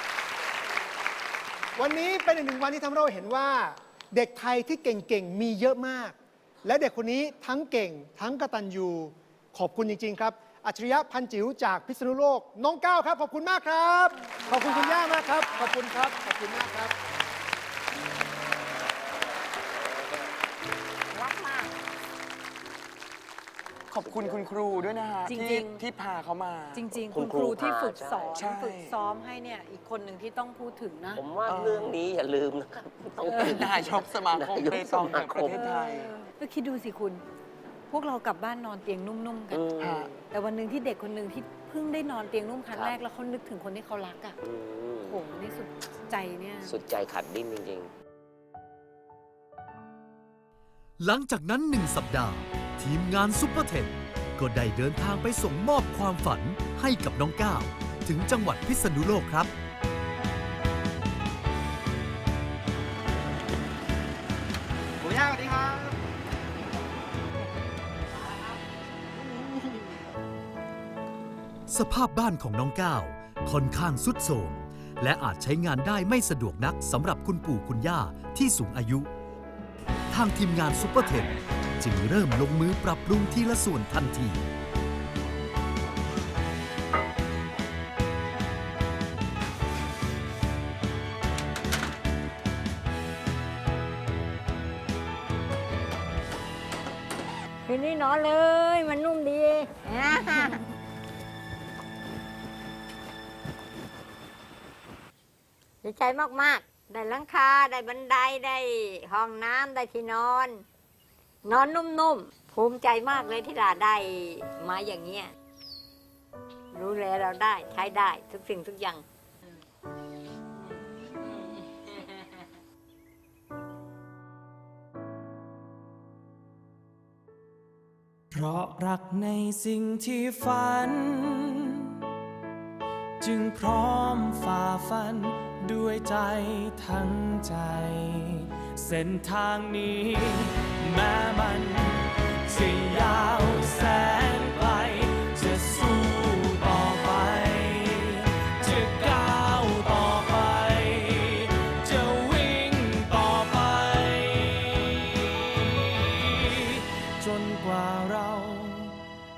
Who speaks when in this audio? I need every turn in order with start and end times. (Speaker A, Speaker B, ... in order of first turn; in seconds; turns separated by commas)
Speaker A: 1.8-16.9, Speaker B: 19.9-20.3, Speaker C: 21.1-21.7, Speaker D: 23.9-26.9, Speaker B: 24.1-24.4, Speaker C: 25.3-25.8, Speaker C: 26.7-31.2, Speaker B: 27.1-28.4, Speaker D: 28.4-28.9, Speaker B: 31.2-35.6, Speaker D: 31.5-31.9, Speaker D: 33.2-36.1, Speaker C: 33.3-33.6, Speaker C: 35.5-37.2, Speaker C: 37.9-39.6, Speaker B: 39.5-40.2, Speaker D: 39.8-40.1, Speaker C: 40.3-44.4, Speaker B: 44.4-45.2, Speaker C: 45.1-46.7, Speaker B: 46.7-47.9, Speaker E: 51.0-59.5, Speaker A: 65.0-65.9, Speaker E: 71.7-79.1, Speaker E: 80.1-84.4, Speaker F: 97.7-100.7, Speaker F: 105.8-110.6, Speaker F: 111.5-115.3, Speaker F: 116.7-119.0, Speaker F: 121.2-121.6, Speaker G: 128.3-131.9, Speaker G: 133.2-158.9